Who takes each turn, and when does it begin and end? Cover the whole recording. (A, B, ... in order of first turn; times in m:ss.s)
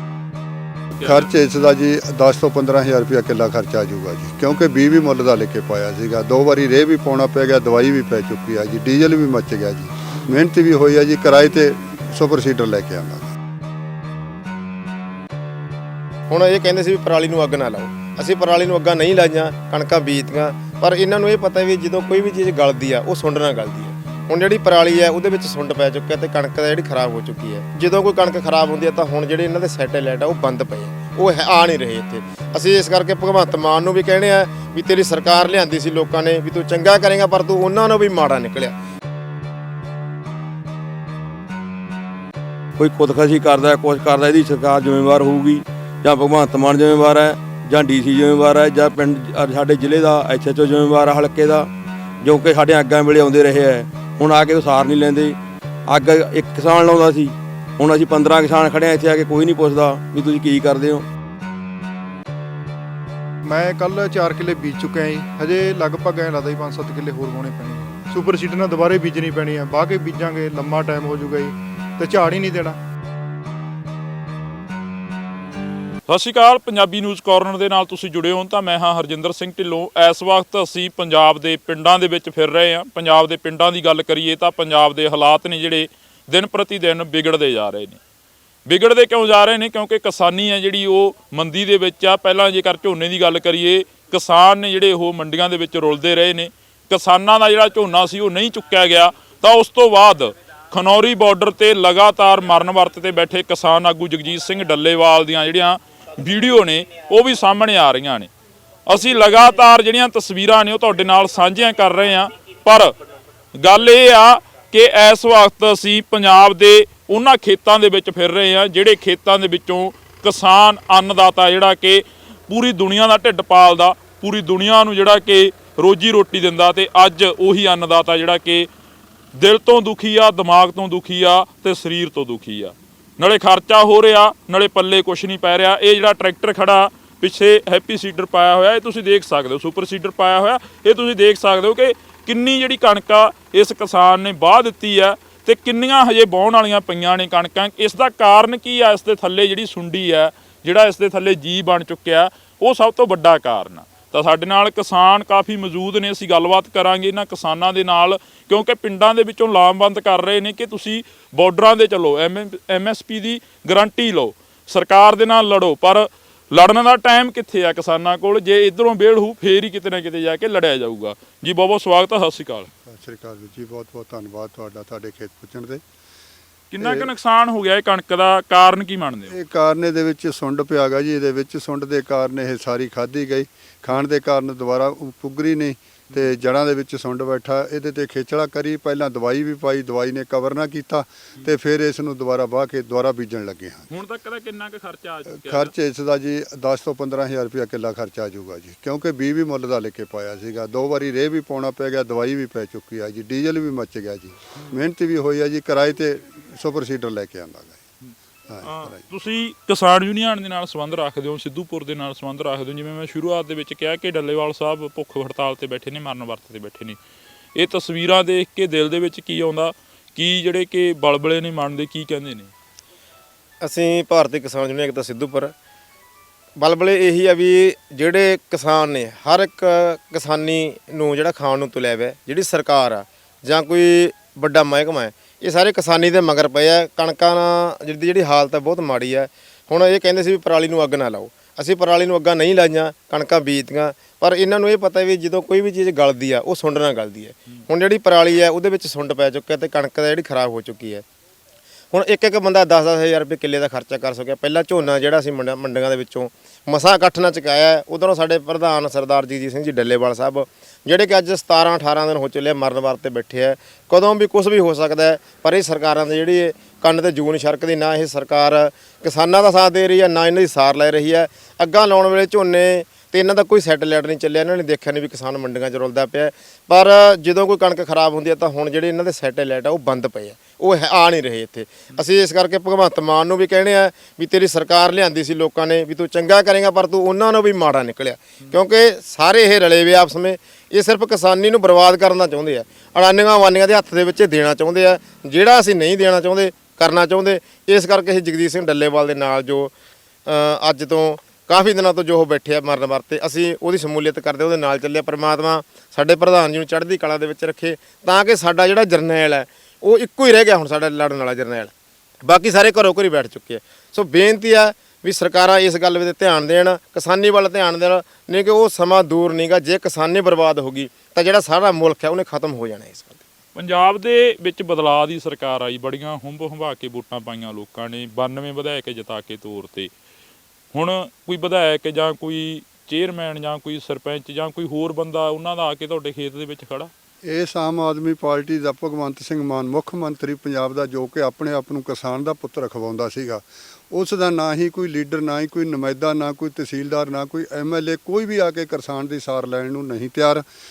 0:01.0-0:01.3 A
0:01.0-0:13.3 B
0:16.3-0:38.7 C
0:42.8-0:51.7 D
0:52.2-0:55.4 D
0:55.9-1:01.0 D
1:03.5-1:12.8 E
1:16.1-1:28.0 A
1:28.7-1:48.3 A
1:48.9-1:52.9 A
1:53.6-2:08.7 A
2:09.4-2:52.7 A
2:52.9-2:55.8 B
2:56.7-2:59.4 A
2:56.8-2:57.1 B
2:59.3-3:13.9 B
3:13.9-3:15.7 A
3:15.4-3:27.8 B
3:28.5-3:29.0 B
3:28.6-3:37.0 A
3:37.6-3:42.5 A
3:43.6-3:45.5 C
3:46.6-4:11.0 C
4:11.9-4:59.7 C
5:00.3-5:11.7 C
5:12.2-5:23.2 C
5:23.6-5:29.9 A
5:30.7-5:36.9 A
5:37.2-5:50.4 B